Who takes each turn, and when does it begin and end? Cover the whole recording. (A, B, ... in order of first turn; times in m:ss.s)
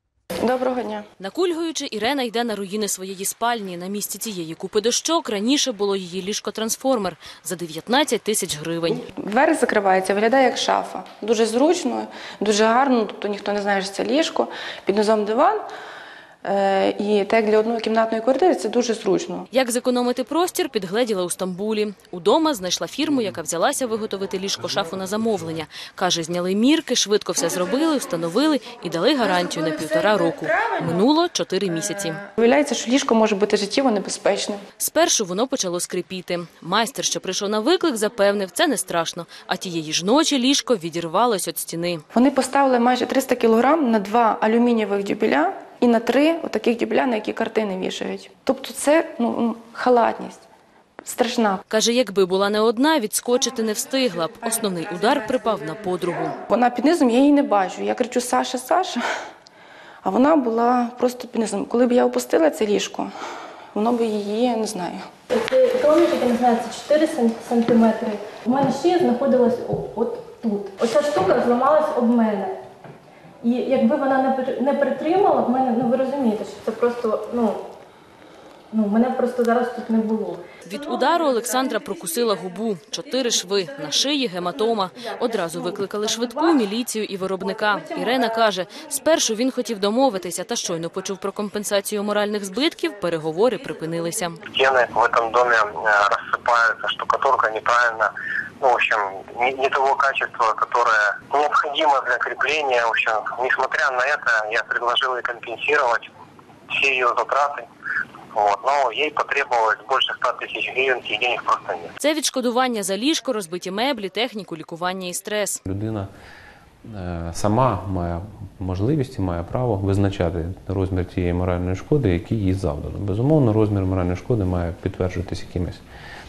0:00.4-0:01.0 A
0:01.2-0:09.0 B
0:09.1-0:15.6 A
0:16.4-0:19.5 A
0:19.5-0:32.2 B
0:32.4-0:34.6 A
0:34.8-0:42.0 B
0:42.1-0:50.4 A
0:51.0-0:51.6 A
0:51.7-0:56.4 B
0:56.5-0:59.0 A
1:00.0-1:03.1 A
1:03.7-1:05.1 A
1:05.3-1:12.6 C
1:13.4-1:17.6 C
1:18.7-1:20.4 C
1:20.6-1:34.4 B
1:25.4-1:26.3 C
1:34.5-1:38.1 D
1:38.6-1:46.1 D
1:46.7-1:47.7 D
1:48.4-1:51.9 D
1:52.0-1:55.6 B
1:55.7-1:56.1 E
1:56.8-2:05.8 E